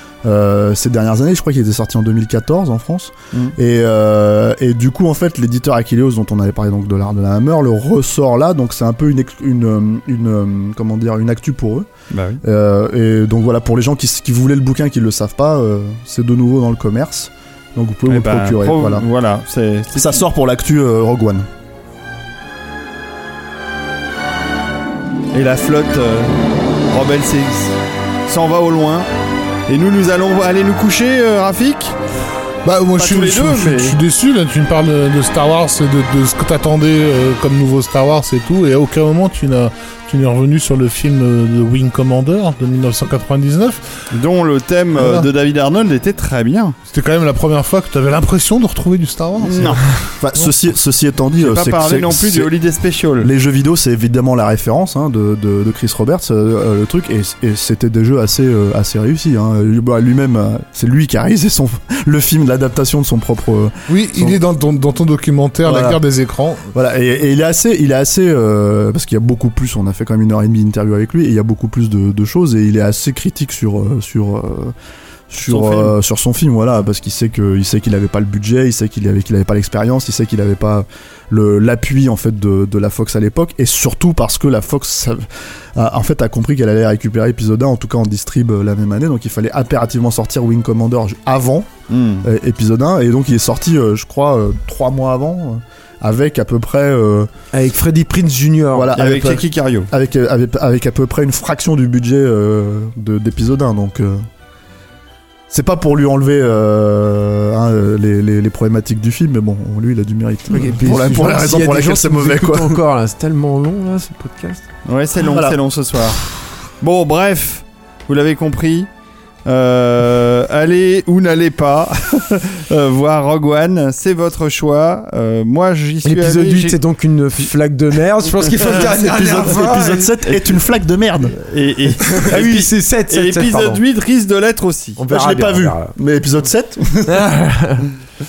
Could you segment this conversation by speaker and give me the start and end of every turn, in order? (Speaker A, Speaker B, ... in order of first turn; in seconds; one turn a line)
Speaker A: 0.2-11.9
Speaker B: 12.1-12.4
Speaker A: 12.4-19.1
Speaker B: 18.1-20.2
Speaker A: 19.9-21.5
Speaker B: 25.3-27.7
Speaker B: 28.3-29.1
Speaker B: 29.7-32.0
Speaker C: 32.6-44.1
Speaker B: 33.0-34.0
Speaker B: 44.1-46.8
Speaker C: 45.0-45.3
Speaker C: 46.9-50.5
Speaker B: 49.4-49.8
Speaker A: 50.2-52.5
Speaker B: 51.4-53.3
Speaker A: 53.2-64.4
Speaker C: 63.9-66.7
Speaker A: 65.6-66.0
Speaker A: 66.7-74.7
Speaker A: 75.3-97.3
Speaker B: 75.4-76.0
Speaker B: 91.9-92.3
Speaker D: 97.5-98.9
Speaker A: 98.7-104.3
Speaker B: 98.9-99.9
Speaker A: 105.5-112.8
Speaker D: 110.5-114.7
Speaker B: 114.9-118.9
Speaker A: 115.3-115.6
Speaker B: 119.5-126.8
Speaker D: 126.0-129.5
Speaker B: 128.6-130.6
Speaker A: 128.7-131.4
Speaker B: 131.3-135.0
Speaker D: 132.3-133.8
Speaker D: 135.0-135.9
Speaker A: 135.1-137.2
Speaker D: 137.1-137.9